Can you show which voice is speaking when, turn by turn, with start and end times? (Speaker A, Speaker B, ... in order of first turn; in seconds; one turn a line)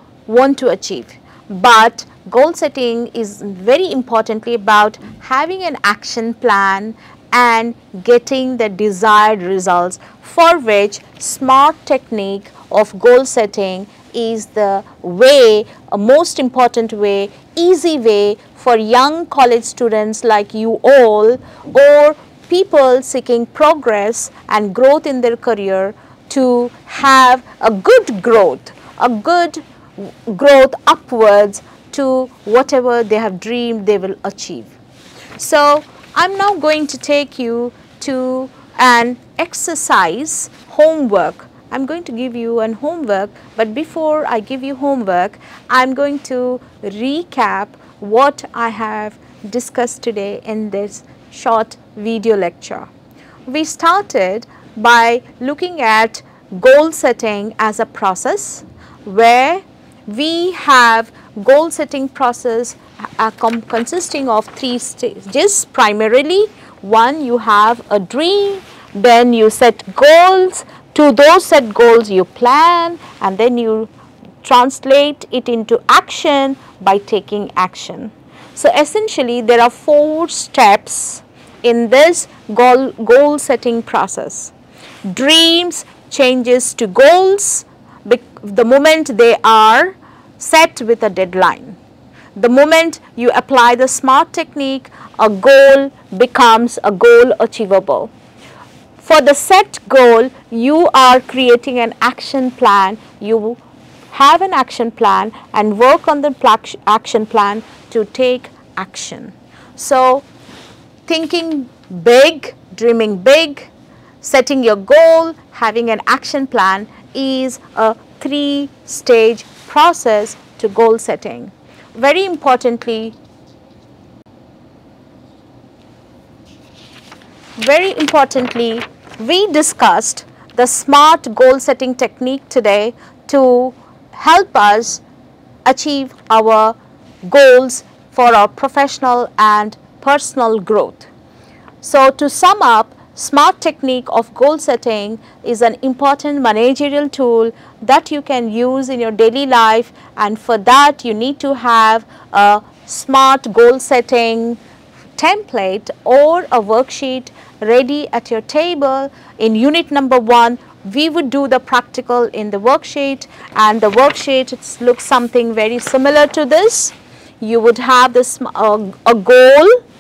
Speaker A: 0.3-34.8
Speaker A: 35.4-52.9
Speaker A: 53.5-73.9
Speaker A: 74.4-84.5
Speaker A: 85.1-91.8
Speaker A: 92.4-98.1
Speaker A: 99.0-103.6
Speaker A: 104.1-110.3
Speaker A: 111.1-113.7
Speaker A: 114.2-123.2
Speaker A: 127.6-135.0
Speaker A: 135.7-141.1
Speaker A: 141.8-154.6
Speaker A: 155.2-169.8